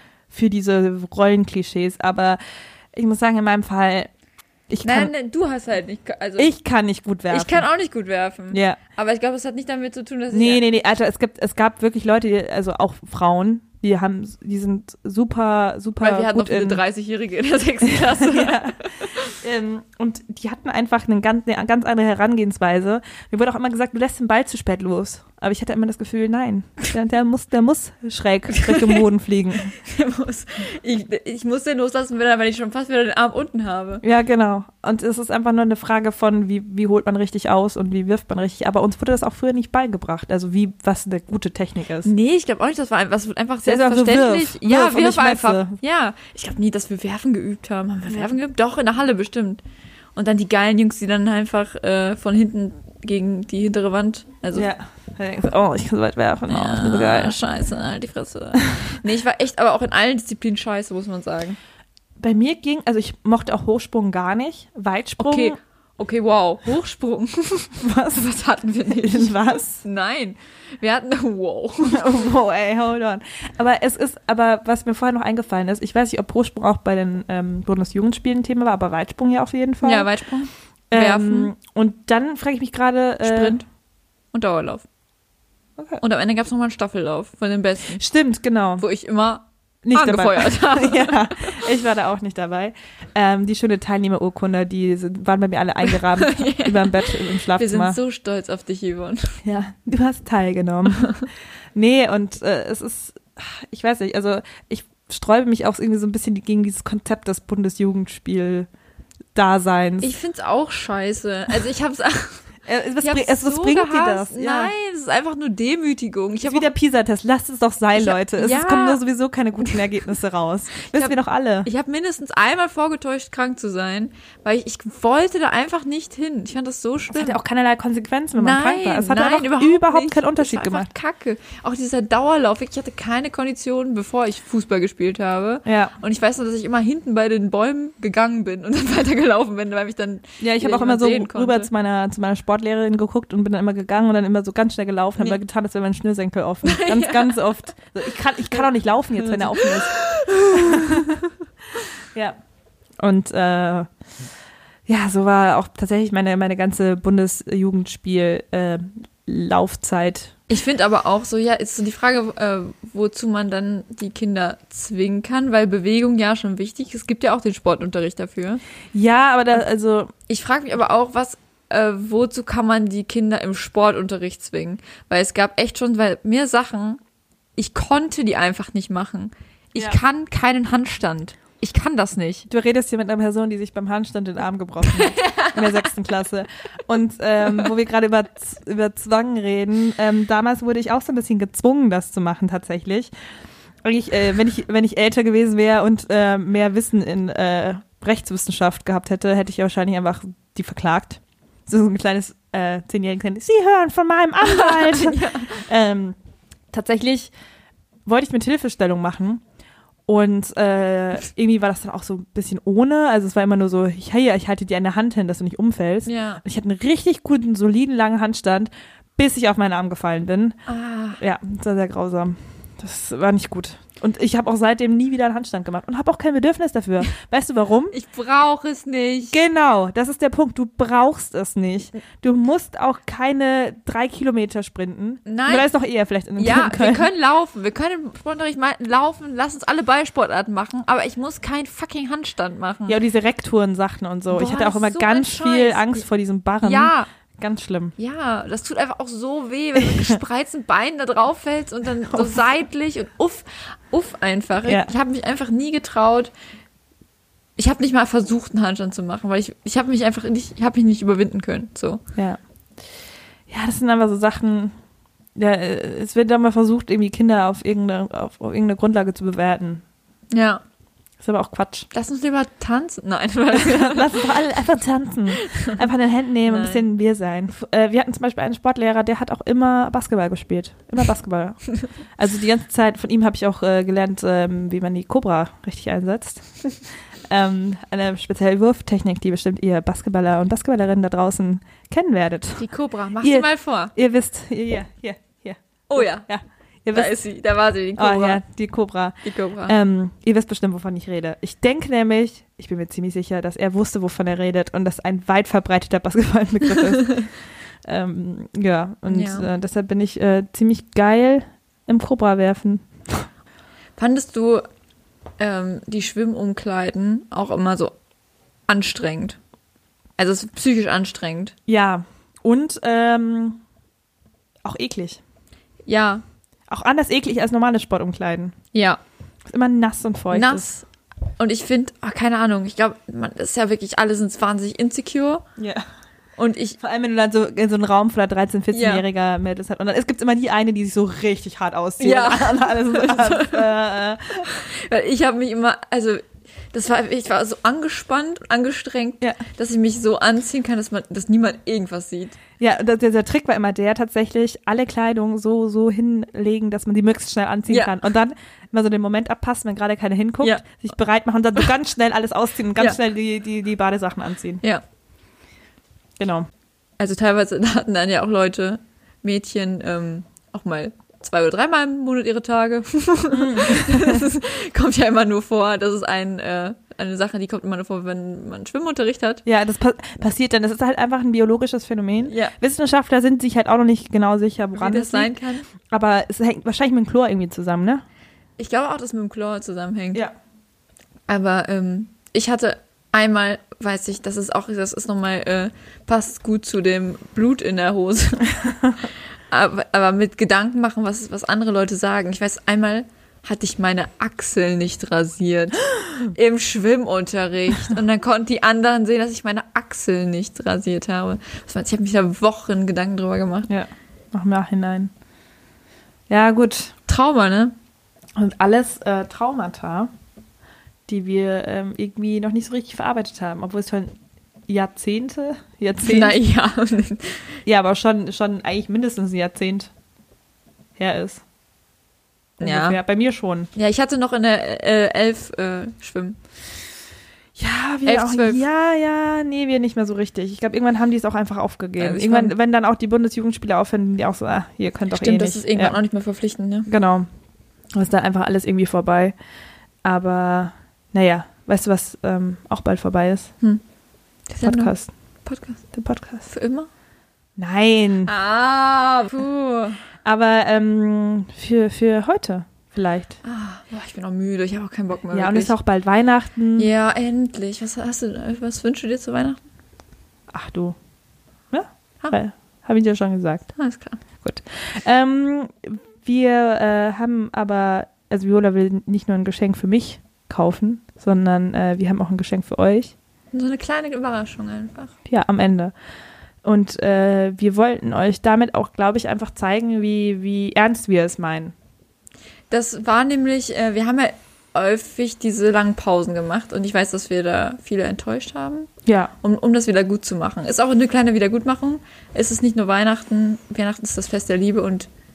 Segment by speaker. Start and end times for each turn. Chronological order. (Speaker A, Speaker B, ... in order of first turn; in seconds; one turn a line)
Speaker A: 0.3-2.4
Speaker A: 2.9-4.1
Speaker A: 4.7-5.1
Speaker B: 4.8-6.5
Speaker A: 6.4-7.7
Speaker B: 7.3-10.6
Speaker A: 8.5-8.8
Speaker A: 10.3-16.8
Speaker B: 16.0-19.3
Speaker A: 17.8-29.7
Speaker B: 28.5-29.1
Speaker B: 29.7-34.0
Speaker A: 34.0-42.1
Speaker B: 42.0-49.6
Speaker A: 43.6-45.8
Speaker B: 50.1-54.7
Speaker A: 54.5-57.4
Speaker B: 56.5-61.6
Speaker A: 62.2-65.6
Speaker B: 65.2-72.2
Speaker A: 67.8-68.3
Speaker A: 68.9-69.8
Speaker A: 71.8-80.1
Speaker B: 79.8-81.5
Speaker A: 80.9-83.6
Speaker B: 83.2-83.7
Speaker B: 84.3-84.8
Speaker A: 85.8-86.0
Speaker B: 86.0-88.0
Speaker A: 88.0-88.8
Speaker B: 88.8-91.6
Speaker A: 89.8-98.0
Speaker B: 96.1-99.4
Speaker A: 99.4-101.1
Speaker A: 101.8-108.7
Speaker A: 109.3-110.1
Speaker B: 110.0-112.4
Speaker A: 112.7-114.7
Speaker B: 113.0-116.7
Speaker A: 116.4-121.7
Speaker B: 118.0-119.0
Speaker B: 120.8-127.4
Speaker A: 127.1-130.9
Speaker B: 128.4-141.7
Speaker A: 135.7-135.9
Speaker A: 140.4-151.2
Speaker B: 146.6-147.4
Speaker B: 149.2-151.3
Speaker A: 153.0-153.9
Speaker A: 154.9-160.3
Speaker B: 160.5-168.6
Speaker A: 168.9-170.1
Speaker B: 170.3-177.0
Speaker B: 177.6-182.5
Speaker A: 182.5-193.1
Speaker B: 184.9-185.9
Speaker A: 193.8-206.2
Speaker B: 204.4-205.6
Speaker A: 206.7-207.3
Speaker A: 208.1-209.4
Speaker A: 210.1-220.6
Speaker B: 216.1-216.4
Speaker B: 220.7-221.2
Speaker A: 221.2-227.9
Speaker B: 227.9-229.4
Speaker A: 229.3-237.1
Speaker B: 235.2-235.7
Speaker B: 236.4-243.0
Speaker A: 242.9-247.9
Speaker B: 244.3-246.0
Speaker B: 246.6-247.1
Speaker B: 248.0-256.3
Speaker A: 249.8-250.2
Speaker A: 252.1-252.4
Speaker A: 254.7-254.9
Speaker B: 257.6-262.0
Speaker A: 263.5-264.8
Speaker A: 265.4-269.8
Speaker B: 270.3-270.6
Speaker A: 271.2-271.9
Speaker B: 271.9-274.3
Speaker A: 273.5-286.5
Speaker B: 275.5-275.8
Speaker B: 276.5-276.9
Speaker A: 287.3-292.7
Speaker B: 292.6-293.9
Speaker A: 293.2-297.2
Speaker B: 295.9-296.3
Speaker B: 296.9-298.4
Speaker A: 298.0-307.3
Speaker B: 299.2-299.8
Speaker B: 307.0-307.3
Speaker A: 307.9-313.3
Speaker B: 309.1-309.5
Speaker B: 314.0-314.6
Speaker B: 315.4-317.9
Speaker B: 318.7-319.4
Speaker B: 320.2-321.6
Speaker A: 321.7-323.6
Speaker A: 324.6-325.2
Speaker B: 325.9-326.2
Speaker A: 326.7-328.6
Speaker B: 328.7-329.0
Speaker A: 329.5-330.7
Speaker B: 330.3-330.9
Speaker B: 331.4-335.4
Speaker A: 335.6-335.9
Speaker B: 336.4-336.8
Speaker A: 336.8-344.5
Speaker B: 338.7-339.0
Speaker B: 342.0-343.7
Speaker B: 344.4-352.4
Speaker A: 352.6-364.6
Speaker B: 357.7-357.9
Speaker A: 366.2-366.5
Speaker B: 367.0-379.4
Speaker A: 373.3-374.3
Speaker A: 379.4-388.1
Speaker B: 382.3-382.6
Speaker B: 384.7-385.7
Speaker B: 388.6-390.2
Speaker B: 391.3-398.6
Speaker B: 399.5-413.7
Speaker A: 413.7-415.1
Speaker A: 416.3-416.9
Speaker B: 417.1-417.8
Speaker A: 418.4-420.1
Speaker A: 421.1-424.1
Speaker A: 424.7-426.4
Speaker B: 426.0-427.6
Speaker A: 427.7-429.9
Speaker A: 431.0-431.4
Speaker B: 432.6-433.0
Speaker A: 432.6-433.7
Speaker B: 433.8-436.4
Speaker A: 437.6-446.0
Speaker B: 438.1-438.6
Speaker B: 442.0-442.5
Speaker B: 445.1-446.9
Speaker A: 446.9-447.3
Speaker A: 447.9-449.4
Speaker A: 450.1-453.5
Speaker B: 454.5-454.9
Speaker A: 454.6-455.1
Speaker B: 455.4-455.8
Speaker A: 455.9-456.5
Speaker B: 456.5-456.9
Speaker A: 457.6-458.3
Speaker B: 458.3-460.0
Speaker A: 460.2-463.4
Speaker B: 463.4-465.7
Speaker A: 465.3-466.9
Speaker B: 466.8-469.6
Speaker A: 470.5-471.0
Speaker A: 471.7-473.7
Speaker B: 473.8-474.2
Speaker A: 474.4-483.1
Speaker B: 483.5-485.1
Speaker A: 485.3-485.9
Speaker A: 486.6-491.7
Speaker B: 492.7-498.9
Speaker A: 499.1-499.3
Speaker B: 499.4-505.1